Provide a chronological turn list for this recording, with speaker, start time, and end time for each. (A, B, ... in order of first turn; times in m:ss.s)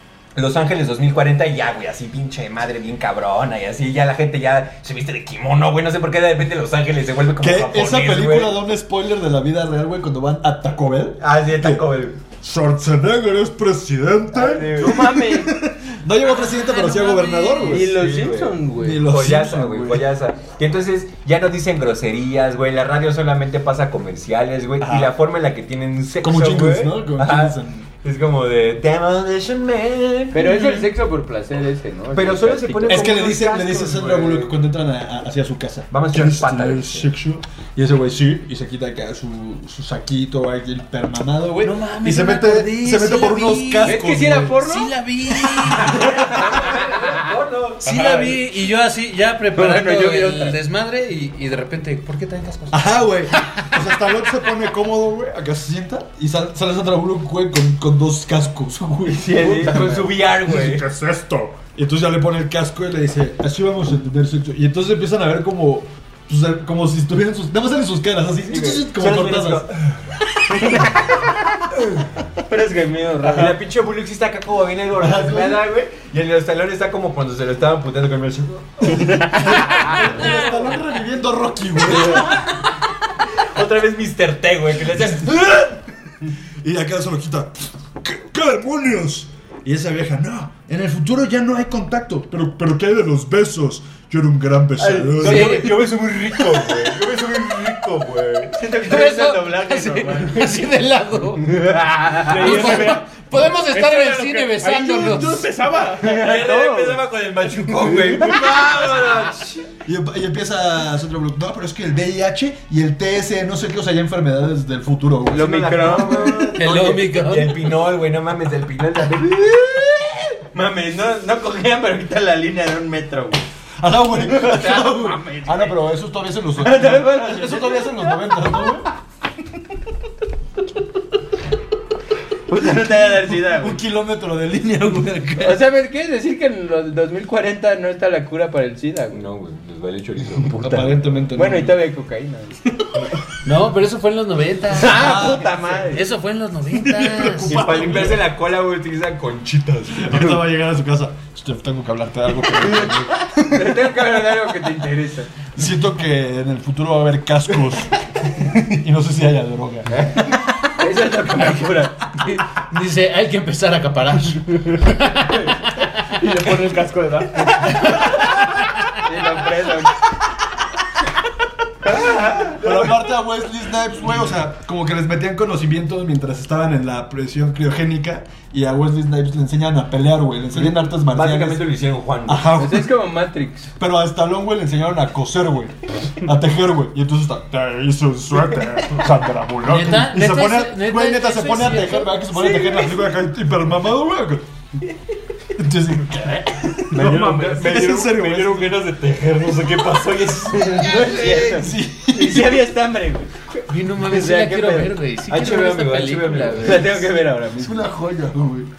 0:00.4-0:08.6 A
0:07.4-0:11.9 B
0:11.2-0:12.2 A
0:12.4-0:18.0 B
0:14.3-0:15.1 A
0:14.7-0:15.6 C
0:16.2-0:17.9 D
0:17.7-0:19.1 C
0:17.8-0:30.6 A
0:18.8-0:20.1 B
0:24.8-0:25.2 B
0:26.2-0:27.9 B
0:30.3-0:33.3 C
0:30.4-0:30.9 B
0:32.1-0:34.5 A
0:32.9-0:44.6 B
0:35.9-0:37.1 A
0:41.6-0:44.0 D
0:43.8-0:44.9 C
0:44.6-0:46.2 D
0:45.6-0:46.5 B
0:45.8-0:47.8 A
0:46.0-0:47.3 C
0:47.8-0:53.8 D
0:47.9-0:48.3 E
0:49.5-0:50.6 C
0:52.7-1:09.8 B
0:59.0-1:00.8 A
1:08.5-1:08.8 C
1:08.5-1:09.9 A
1:10.5-1:20.5 A
1:12.5-1:13.6 C
1:14.9-1:15.7 B
1:18.9-1:22.4 B
1:21.9-1:22.7 A
1:23.4-1:25.8 A
1:26.6-1:35.9 B
1:34.8-1:38.7 A
1:35.2-1:35.8 C
1:36.6-1:36.9 B
1:38.5-1:40.5 C
1:38.8-1:41.5 D
1:41.5-1:42.8 A
1:42.0-1:42.6 C
1:42.3-1:46.2 E
1:42.3-1:45.5 D
1:45.9-1:49.6 A
1:46.0-1:47.1 C
1:47.8-1:48.6 B
1:47.8-1:49.6 C
1:49.8-1:56.4 B
1:55.3-1:56.6 C
1:55.3-2:00.5 A
1:56.5-1:57.6 D
2:00.5-2:03.4 C
2:03.8-2:08.9 B
2:04.2-2:05.8 C
2:06.6-2:08.4 C
2:12.5-2:13.8 C
2:13.3-2:15.6 B
2:15.4-2:19.2 C
2:19.1-2:21.3 A
2:20.6-2:21.8 B
2:21.4-2:22.6 C
2:23.4-2:25.4 D
2:24.8-2:26.0 C
2:24.8-2:25.9 B
2:25.9-2:28.1 D
2:26.7-2:28.3 B
2:27.5-2:30.4 A
2:29.9-2:33.8 B
2:32.7-2:35.3 C
2:35.6-2:40.0 B
2:39.9-2:42.0 C
2:42.2-2:45.9 D
2:46.2-2:47.9 E
2:49.0-2:50.0 C
2:51.8-2:52.8 C
2:52.5-3:01.7 B
3:00.6-3:02.6 A
3:02.3-3:02.9 B
3:02.6-3:03.7 C
3:03.8-3:14.4 B
3:09.7-3:12.4 D
3:15.6-3:18.9 B
3:16.9-3:17.9 E
3:16.9-3:21.6 A
3:19.6-3:20.4 B
3:20.6-3:21.7 D
3:20.8-3:23.3 C
3:21.3-3:22.6 B
3:23.7-3:26.9 D
3:24.1-3:27.7 A
3:24.4-3:24.7 C
3:26.6-3:27.7 C
3:27.6-3:28.7 B